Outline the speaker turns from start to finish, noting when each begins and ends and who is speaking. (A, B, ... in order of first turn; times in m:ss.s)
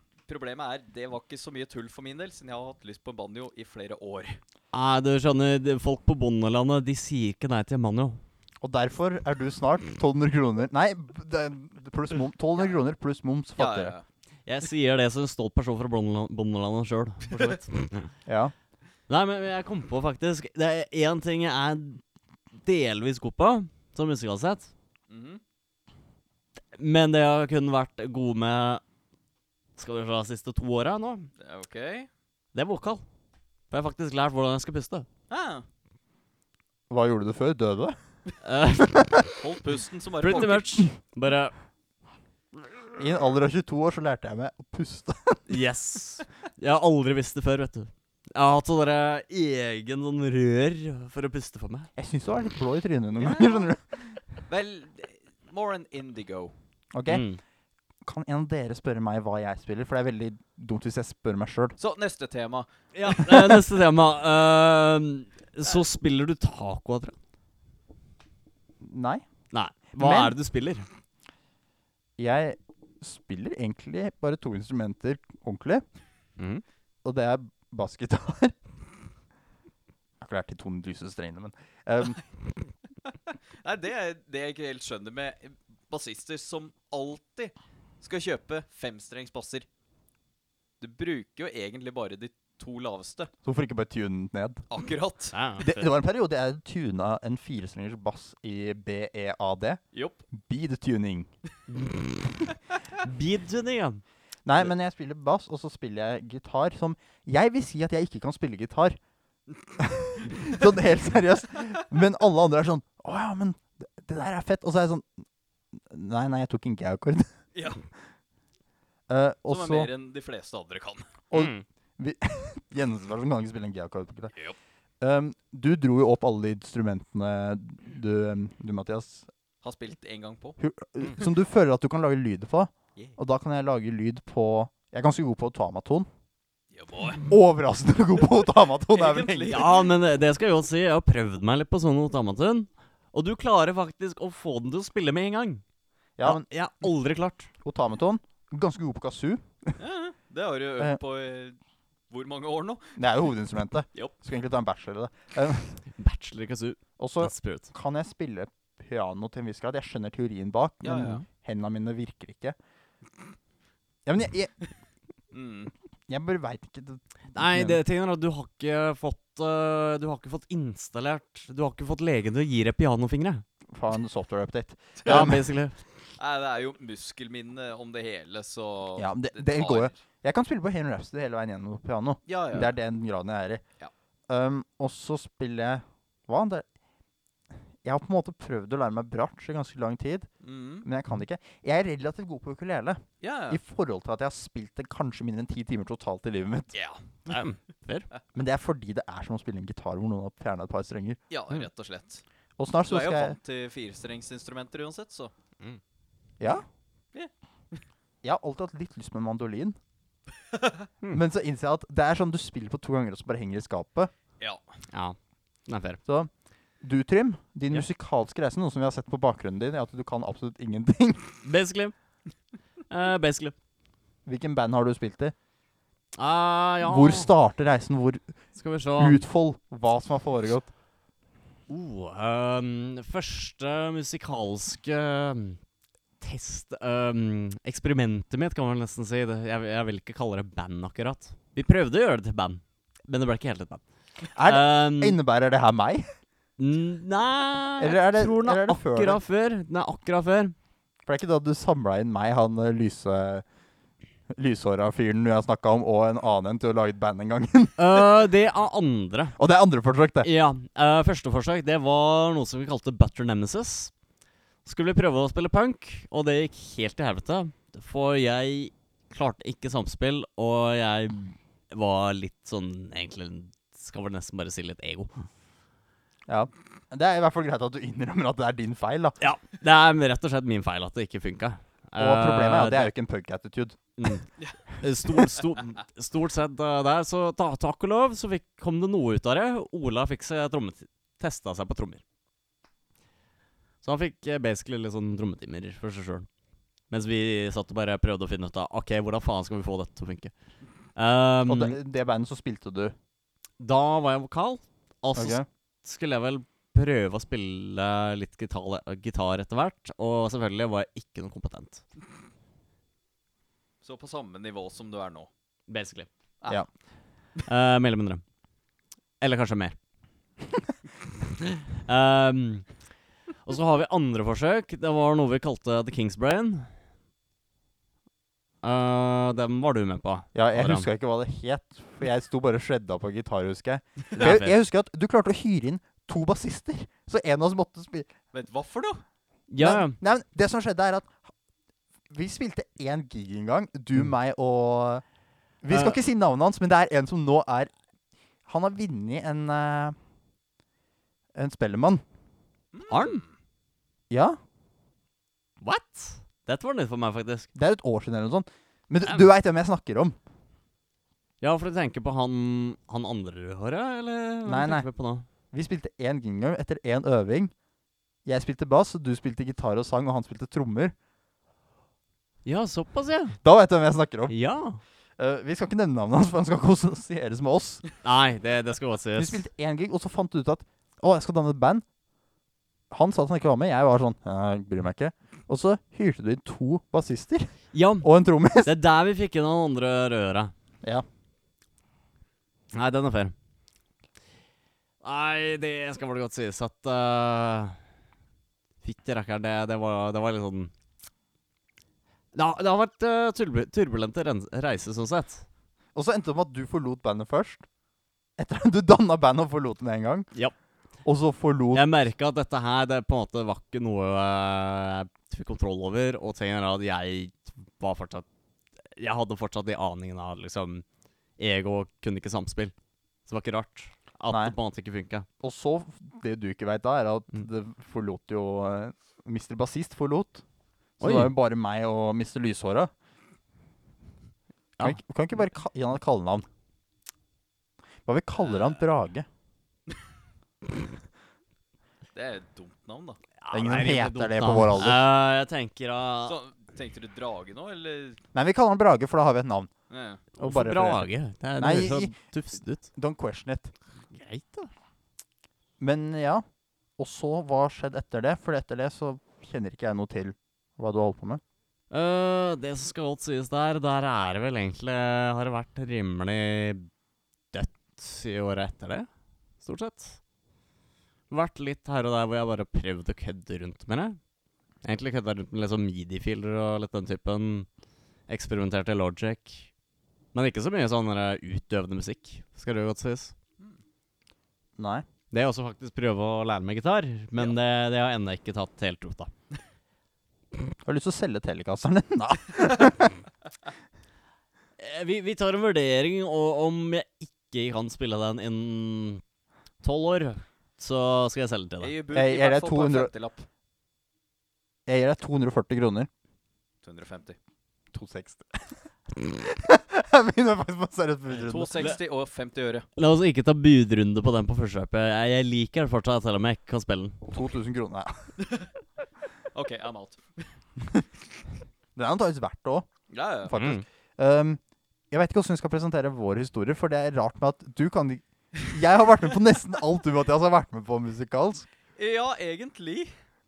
0:00.3-0:04.4 A
0:04.7-0:08.2 B
0:08.6-0:13.9 C
0:13.6-0:14.0 A
0:14.4-0:18.1 B
0:18.2-0:18.5 C
0:19.1-0:22.0 B
0:22.6-0:24.7 B
0:25.1-0:25.4 A
0:26.7-0:28.8 B
0:29.8-0:31.3 B
0:31.4-0:32.1 A
0:32.5-0:33.0 B
0:33.7-0:35.0 B
0:35.3-0:35.6 A
0:36.9-0:38.0 C
0:38.4-0:39.1 B
0:38.8-0:39.2 C
0:39.4-0:40.9 A
0:40.2-0:41.5 B
0:43.0-0:45.4 C
0:45.5-0:51.9 B
0:52.0-0:54.1 C
0:53.2-0:53.6 A
0:54.5-0:56.5 A
0:56.9-0:57.2 C
0:57.1-0:57.4 B
0:58.0-1:01.8 C
1:01.8-1:03.2 A
1:02.9-1:07.2 B
1:03.3-1:03.6 C
1:08.8-1:09.2 C
1:09.5-1:10.8 B
1:10.0-1:10.3 C
1:12.2-1:15.8 C
1:17.0-1:18.6 C
1:20.2-1:22.2 C
1:23.1-1:29.7 A
1:30.8-1:33.3 A
1:33.4-1:34.6 C
1:34.7-1:35.3 A
1:35.3-1:35.9 B
1:35.6-1:41.3 C
1:39.9-1:40.2 A
1:41.7-1:44.0 B
1:44.4-1:49.0 C
1:49.8-1:55.1 C
1:55.7-1:57.3 C
1:57.5-1:57.8 A
1:59.1-1:59.9 C
1:59.5-2:01.1 A
2:01.3-2:04.3 C
2:01.3-2:01.6 B
2:05.0-2:09.3 C
2:09.6-2:10.6 A
2:10.6-2:16.1 C
2:16.7-2:17.2 A
2:17.2-2:19.6 C
2:18.9-2:19.9 A
2:19.5-2:25.6 B
2:26.2-2:26.4 C
2:26.2-2:27.5 B
2:27.6-2:29.7 C
2:29.8-2:31.6 A
2:32.1-2:33.0 A
2:33.0-2:35.8 C
2:36.0-2:37.7 B
2:37.0-2:42.6 C
2:40.8-2:41.2 A
2:44.0-2:44.5 C
2:45.3-2:45.7 A
2:46.1-2:47.8 C
2:47.3-2:53.4 B
2:53.7-2:55.5 C
2:55.0-2:55.7 B
2:56.2-3:00.0 A
2:59.0-3:03.6 C
3:02.3-3:02.7 A
3:04.3-3:06.6 C
3:07.8-3:10.3 C
3:10.4-3:10.9 A
3:10.8-3:16.7 C
3:13.2-3:13.6 A
3:16.7-3:17.4 A
3:17.3-3:18.1 B
3:18.3-3:21.2 C
3:21.3-3:22.2 A
3:22.6-3:23.4 C
3:22.9-3:25.3 A
3:26.4-3:26.6 C
3:27.1-3:27.8 A
3:28.2-3:29.8 C
3:30.5-3:30.8 A
3:31.1-3:34.1 C
3:34.4-3:34.8 A
3:35.7-3:36.0 B
3:36.8-3:41.2 C
3:41.4-3:41.9 B
3:42.9-3:43.5 B
3:44.2-3:45.3 C
3:46.2-3:47.3 B
3:46.8-3:48.2 C
3:48.6-3:49.2 B
3:49.0-3:50.7 C
3:51.7-3:55.6 B
3:56.2-4:03.8 B
4:04.3-4:06.0 C
4:04.4-4:05.2 B
4:06.6-4:10.5 B
4:07.8-4:09.2 C
4:11.0-4:13.4 C
4:14.3-4:18.1 C
4:17.8-4:19.4 B
4:19.4-4:20.3 C
4:20.2-4:23.9 B
4:24.6-4:35.2 B
4:36.3-4:39.2 C
4:39.2-4:42.9 B
4:42.0-4:43.8 C
4:44.0-4:52.0 B
4:53.8-4:56.3 B
4:56.9-5:00.3 B
5:01.0-5:01.8 B
5:01.4-5:02.9 C
5:03.6-5:11.8 B
5:05.1-5:05.4 C
5:13.8-5:15.3 A
5:15.7-5:16.1 B
5:16.4-5:16.6 A
5:17.4-5:18.2 B
5:19.2-5:19.7 B
5:21.5-5:22.6 B
5:23.4-5:26.7 B
5:28.6-5:30.9 B
5:30.3-5:38.1 C
5:34.2-5:34.5 B
5:38.3-5:39.0 A
5:39.5-5:40.0 B
5:39.6-5:41.2 C
5:42.1-5:45.0 C
5:45.6-5:47.7 C
5:45.7-5:46.0 B
5:48.5-5:50.0 C
5:51.3-5:52.0 C
5:52.7-5:53.3 A
5:52.9-5:53.2 B
5:54.1-5:54.4 C
5:55.6-5:57.5 B
5:57.5-6:00.2 C
6:01.4-6:05.2 B
6:04.4-6:04.9 C
6:05.5-6:07.5 C
6:08.2-6:10.9 C
6:12.4-6:13.4 B
6:13.4-6:14.3 C
6:14.3-6:14.8 B
6:15.2-6:17.8 C
6:18.0-6:19.4 B
6:19.2-6:21.8 C
6:22.9-6:28.7 C
6:27.7-6:28.1 B
6:28.6-6:30.5 B
6:32.7-6:33.3 B
6:35.0-6:37.8 B
6:38.8-6:40.7 B
6:42.3-6:45.4 B
6:45.9-6:47.6 C
6:48.4-6:50.3 C
6:51.0-6:51.8 C
6:51.7-6:58.2 B
6:58.9-7:00.8 B
7:01.4-7:02.7 B
7:03.3-7:05.3 B
7:04.3-7:04.5 C
7:05.4-7:10.4 C
7:11.0-7:12.9 C
7:11.0-7:11.3 B
7:14.8-7:16.4 C
7:18.0-7:19.3 C
7:18.4-7:18.8 A
7:22.1-7:23.2 A
7:23.4-7:26.4 B
7:23.5-7:25.0 C
7:26.2-7:28.2 A
7:28.3-7:29.7 C
7:29.9-7:30.2 A
7:30.4-7:31.1 C
7:30.4-7:32.9 B
7:31.6-7:32.1 C
7:32.9-7:33.7 C
7:34.1-7:34.7 B
7:35.8-7:36.4 C
7:37.0-7:41.4 C
7:41.9-7:46.9 B
7:47.5-7:49.1 B
7:49.6-7:50.2 B
7:51.3-7:54.2 B
7:54.8-7:57.7 B
7:58.3-7:59.7 B
8:00.3-8:03.3 B
8:04.8-8:05.0 C
8:05.3-8:09.3 B
8:10.8-8:13.2 C
8:14.8-8:19.2 B
8:19.8-8:21.9 B
8:21.8-8:23.5 A
8:22.1-8:23.1 C
8:24.8-8:26.1 C
8:26.8-8:27.4 A
8:27.9-8:31.9 C
8:31.3-8:32.8 A
8:33.0-8:37.2 B
8:37.3-8:38.3 C
8:38.4-8:38.7 A
8:39.5-8:40.5 A
8:42.0-8:42.9 C
8:43.1-8:43.6 A
8:43.4-8:44.6 C
8:43.5-8:43.8 B
8:45.1-8:51.7 C
8:52.0-8:53.1 A